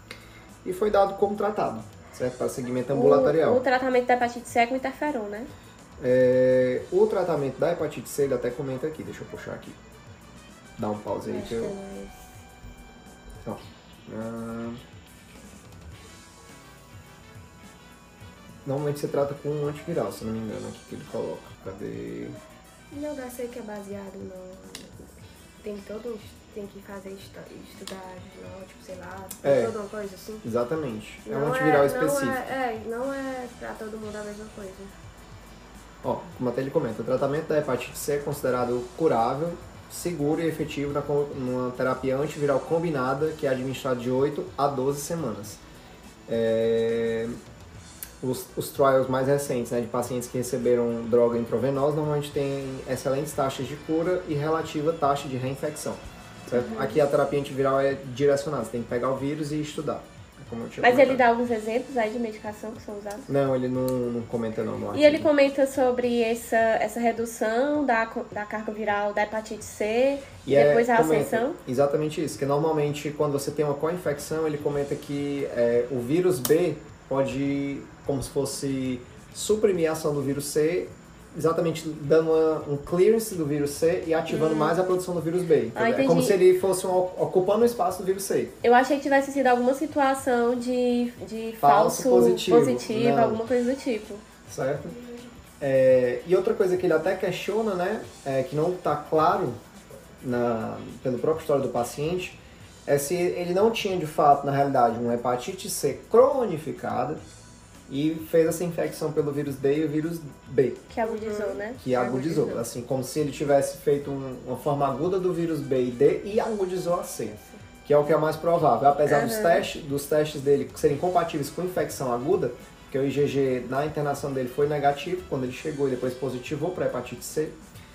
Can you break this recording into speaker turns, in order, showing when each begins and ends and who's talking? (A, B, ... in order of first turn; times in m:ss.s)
0:00.6-0:03.6 A
0:02.9-0:05.5 B
0:06.0-0:09.8 A
0:10.8-0:11.7 A
0:11.2-0:12.3 C
0:13.4-0:14.8 A
0:18.6-0:22.4 A
0:22.9-0:25.1 C
0:25.6-0:30.4 C
0:29.4-0:29.7 A
0:30.4-0:32.4 A
0:31.3-0:34.9 C
0:36.0-0:45.6 A
0:46.3-0:47.4 A
0:48.2-1:01.2 A
0:56.5-0:57.0 B
1:00.8-1:03.3 B
1:03.3-1:05.3 A
1:04.9-1:11.6 B
1:10.4-1:28.6 A
1:24.3-1:24.8 B
1:25.7-1:26.4 B
1:28.6-1:34.2 B
1:31.6-1:33.4 A
1:34.5-1:35.0 A
1:35.0-1:35.2 C
1:35.6-1:39.6 A
1:40.2-1:47.2 A
1:47.9-1:50.9 A
1:50.9-1:51.8 B
1:51.0-1:52.6 C
1:51.8-2:07.6 A
1:59.1-1:59.6 B